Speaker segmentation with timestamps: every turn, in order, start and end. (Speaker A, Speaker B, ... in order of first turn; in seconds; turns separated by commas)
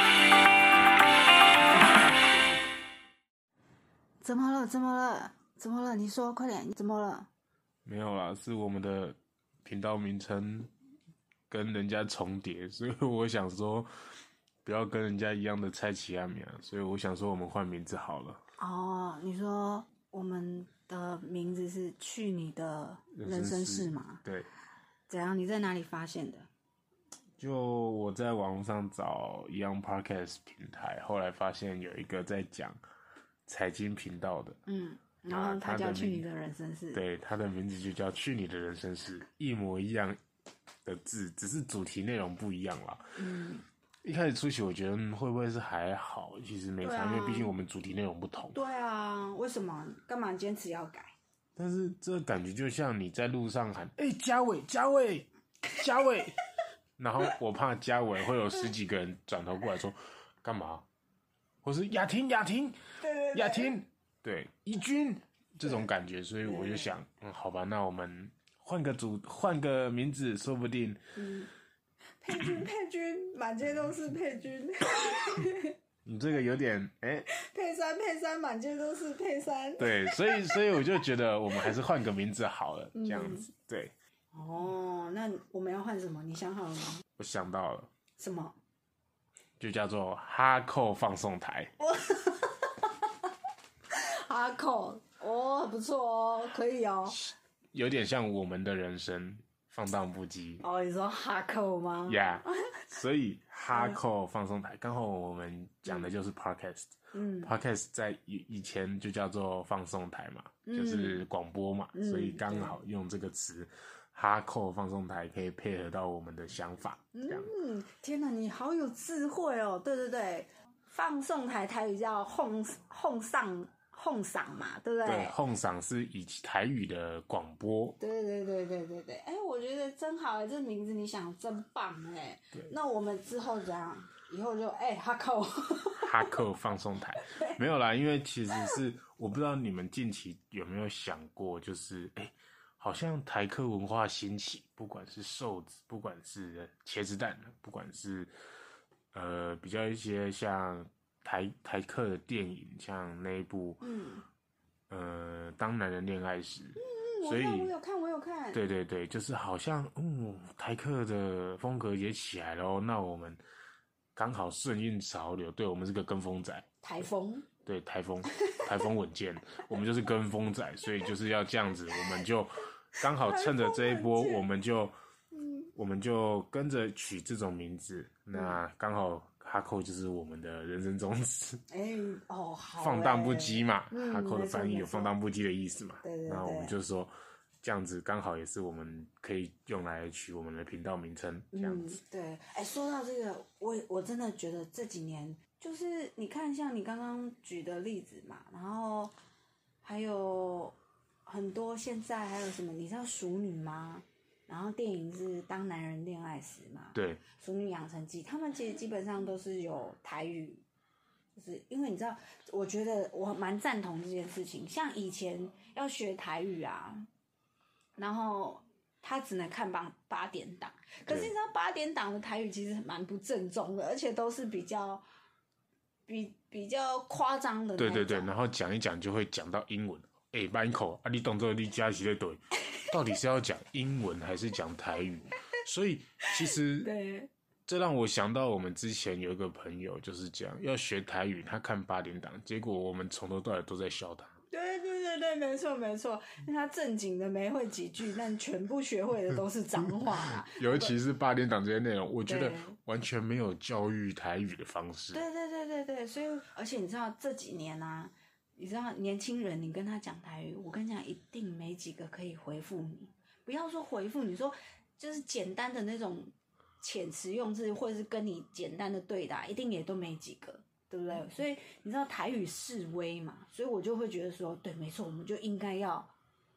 Speaker A: 4.2-7.3, Speaker B: 7.8-10.7, Speaker B: 11.5-13.9, Speaker B: 14.6-18.4, Speaker A: 18.6-24.2, Speaker B: 23.1-24.5, Speaker A: 25.1-26.5, Speaker B: 27.4-32.8, Speaker B: 33.5-34.6, Speaker A: 34.7-37.0, Speaker B: 35.3-36.2, Speaker B: 36.9-40.2, Speaker B: 40.8-43.2, Speaker A: 43.2-43.6, Speaker B: 44.0-48.6, Speaker A: 46.8-47.6, Speaker A: 48.5-51.1, Speaker B: 51.6-56.4, Speaker B: 57.0-60.9, Speaker B: 61.6-71.0, Speaker A: 63.0-63.7, Speaker A: 66.4-66.9, Speaker A: 71.2-71.5, Speaker A: 72.2-75.8, Speaker B: 72.3-72.6, Speaker B: 76.0-77.3, Speaker A: 77.3-80.8, Speaker B: 79.8-83.9, Speaker A: 82.9-83.5, Speaker A: 84.3-87.0, Speaker B: 87.2-87.9, Speaker A: 88.2-88.6, Speaker B: 89.6-91.7, Speaker A: 91.8-93.3, Speaker A: 93.9-97.2, Speaker B: 97.1-100.6, Speaker A: 100.6-102.8, Speaker B: 102.1-117.5, Speaker A: 103.7-104.0, Speaker A: 105.8-106.1, Speaker A: 107.1-107.5, Speaker A: 110.7-111.2, Speaker A: 111.9-112.8, Speaker A: 117.1-125.3, Speaker B: 125.0-128.0, Speaker A: 128.0-136.3, Speaker B: 135.9-148.3, Speaker A: 137.3-137.6, Speaker A: 138.5-138.8, Speaker B: 149.1-153.8, Speaker A: 153.8-154.2, Speaker B: 154.9-157.7, Speaker A: 156.8-158.6, Speaker B: 158.5-163.4, Speaker B: 164.2-166.7, Speaker A: 166.8-167.5, Speaker B: 167.6-174.9, Speaker A: 173.1-174.4, Speaker A: 175.3-175.7, Speaker B: 175.7-181.6, Speaker A: 178.3-178.6, Speaker A: 181.7-185.2, Speaker B: 182.8-191.9, Speaker A: 186.0-186.8, Speaker A: 191.5-199.1, Speaker A: 199.8-210.6, Speaker B: 206.9-207.2, Speaker A: 211.3-217.1, Speaker A: 218.0-225.0, Speaker A: 226.1-228.3, Speaker B: 227.8-236.9, Speaker A: 236.3-237.3, Speaker B: 237.7-244.3, Speaker A: 244.5-250.9, Speaker B: 250.0-255.2, Speaker A: 252.3-252.8, Speaker A: 255.1-276.1